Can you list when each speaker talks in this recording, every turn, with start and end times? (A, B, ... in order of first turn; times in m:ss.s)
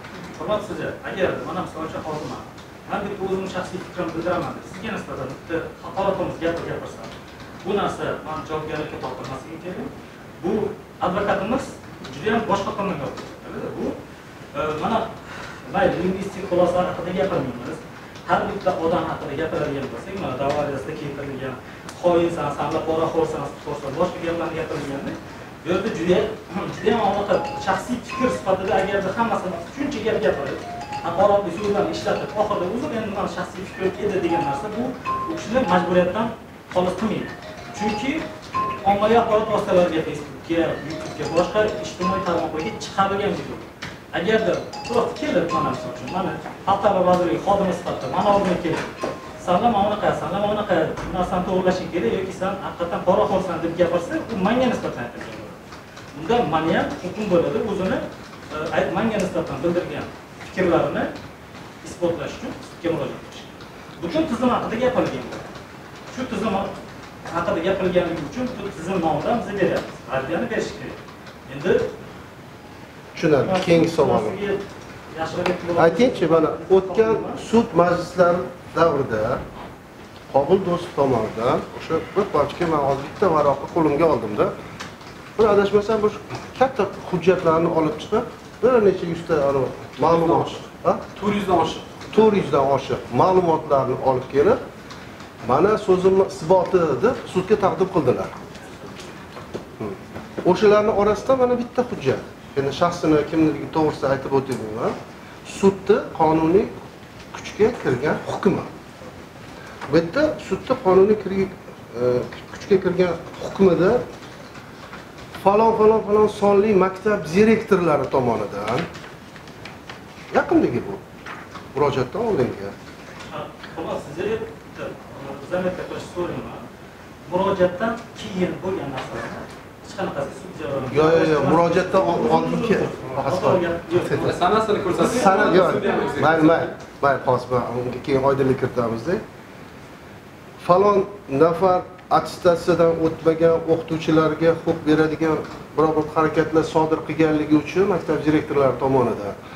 0:00.4-0:07.1 A
0:07.6-0:14.0 A
0:14.5-0:38.2 A
0:38.8-0:48.9 A
0:49.4-0:55.6 A
0:56.1-1:01.1 A
1:01.8-1:05.4 A
1:06.1-1:06.7 A
1:07.3-1:11.9 A
1:13.1-1:14.4 B
1:13.3-1:14.6 A
1:15.1-1:17.4 A
1:15.8-1:19.4 B
1:20.3-1:24.5 B
1:25.4-1:31.0 B
1:30.0-1:32.3 C
1:32.1-1:34.6 B
1:35.4-1:38.3 B
1:39.8-1:46.7 B
1:47.3-1:48.7 B
1:49.9-1:54.0 B
1:55.4-1:58.9 B
2:00.3-2:01.0 B
2:01.7-2:02.7 B
2:03.3-2:06.6 A
2:07.3-2:14.4 A
2:10.9-2:14.3 B
2:14.2-2:16.8 C
2:15.0-2:19.2 B
2:20.6-2:29.4 B